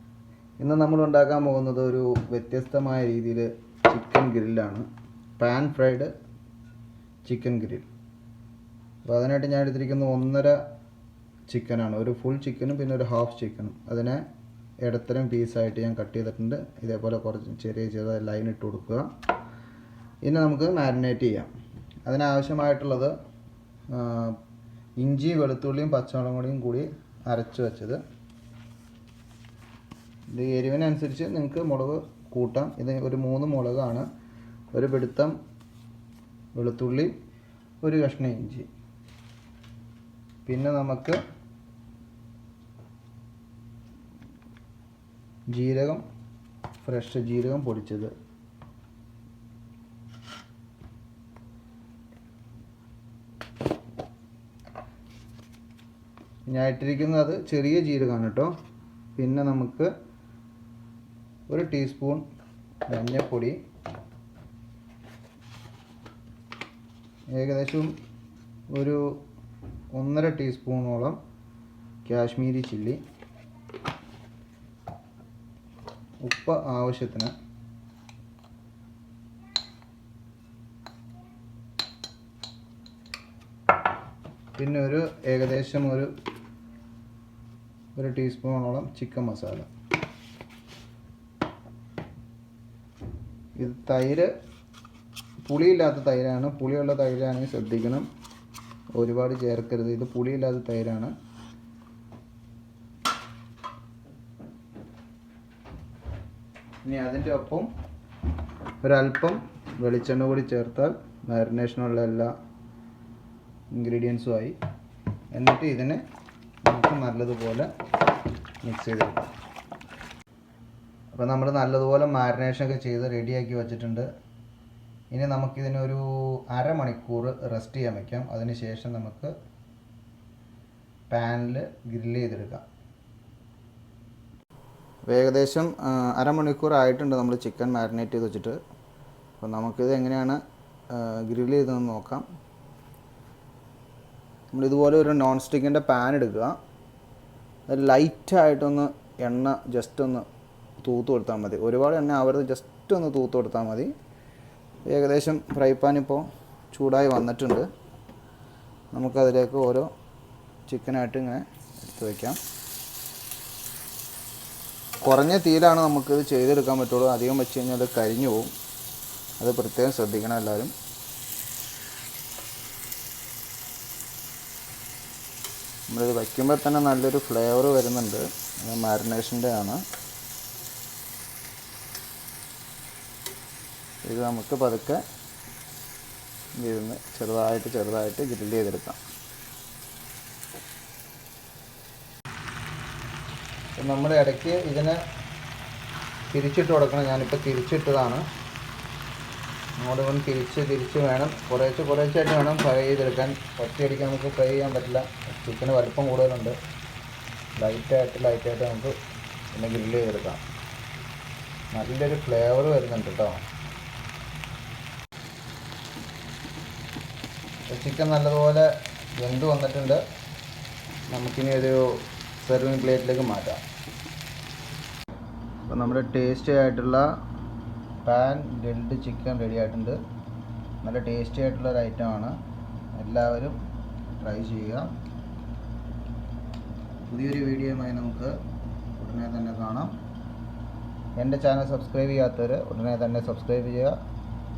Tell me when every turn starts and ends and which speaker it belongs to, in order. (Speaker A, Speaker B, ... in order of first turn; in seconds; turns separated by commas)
Speaker A: 0.6-4.9, Speaker A: 5.4-6.1, Speaker A: 7.2-7.9, Speaker A: 9.1-10.6, Speaker A: 11.5-14.2, Speaker A: 14.8-19.1, Speaker A: 20.2-21.5, Speaker A: 22.1-23.1, Speaker A: 23.9-24.4, Speaker A: 25.0-28.0, Speaker A: 30.3-34.1, Speaker A: 34.7-35.4, Speaker A: 36.6-37.1, Speaker A: 37.8-38.7, Speaker A: 40.5-41.2, Speaker A: 45.5-46.0, Speaker A: 46.8-48.1, Speaker A: 56.5-58.5, Speaker A: 59.2-59.9, Speaker A: 61.5-62.2, Speaker A: 62.9-63.6, Speaker A: 67.3-67.9, Speaker A: 68.7-69.0, Speaker A: 69.9-71.2, Speaker A: 72.0-73.0, Speaker A: 76.2-77.3, Speaker A: 84.6-86.1, Speaker A: 88.0-89.7, Speaker A: 93.6-94.3, Speaker A: 95.4-98.1, Speaker A: 99.0-101.1, Speaker A: 106.8-107.7, Speaker A: 108.8-112.3, Speaker A: 113.7-114.6, Speaker A: 115.3-116.0, Speaker A: 116.7-117.7, Speaker A: 118.6-119.3, Speaker A: 121.2-124.1, Speaker A: 125.1-129.3, Speaker A: 131.1-132.7, Speaker A: 135.1-138.6, Speaker A: 139.4-142.2, Speaker A: 144.5-146.6, Speaker A: 147.7-150.3, Speaker A: 150.8-153.9, Speaker A: 154.9-157.7, Speaker A: 158.9-159.9, Speaker A: 160.7-162.4, Speaker A: 165.0-168.5, Speaker A: 169.4-170.7, Speaker A: 175.9-179.8, Speaker A: 184.0-185.0, Speaker A: 186.6-189.0, Speaker A: 193.8-195.0, Speaker A: 196.3-198.2, Speaker A: 199.8-206.6, Speaker A: 207.6-209.0, Speaker A: 209.5-210.4, Speaker A: 211.7-213.4, Speaker A: 217.7-220.0, Speaker A: 221.1-223.6, Speaker A: 225.7-227.1, Speaker A: 228.0-230.0, Speaker A: 230.8-232.4, Speaker A: 233.0-233.6, Speaker A: 234.2-234.9, Speaker A: 237.1-238.3, Speaker A: 239.0-239.9, Speaker A: 241.2-244.0